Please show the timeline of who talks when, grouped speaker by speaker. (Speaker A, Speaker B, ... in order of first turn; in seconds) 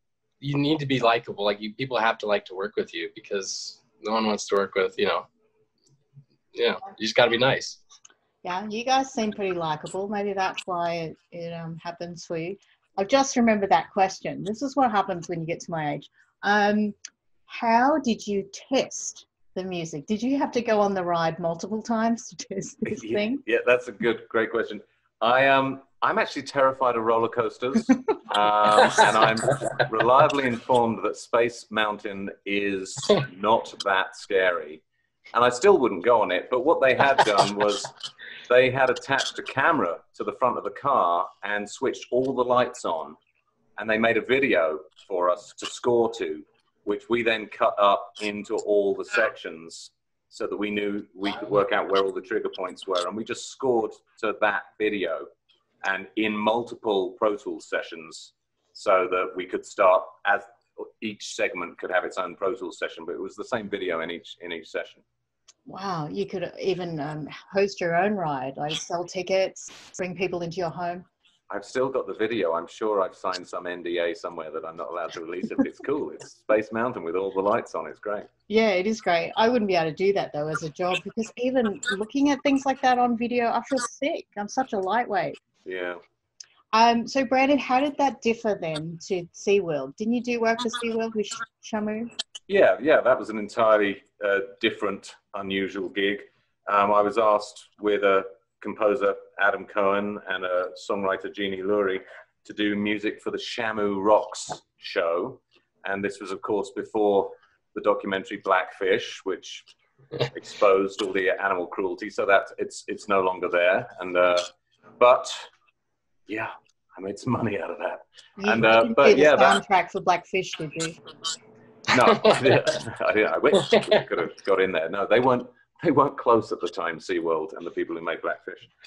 Speaker A: 0.4-5.3, 6.5-7.8
Speaker B: 8.4-17.0, 17.5-23.4, 65.7-71.1, 78.5-85.4, 86.7-92.1, 118.4-121.0
Speaker C: 22.9-34.8, 35.3-37.9, 38.5-43.2, 43.8-55.3, 55.8-65.0, 71.5-78.3, 85.7-86.0, 92.5-109.7, 110.3-115.5, 116.3-119.6, 121.9-128.7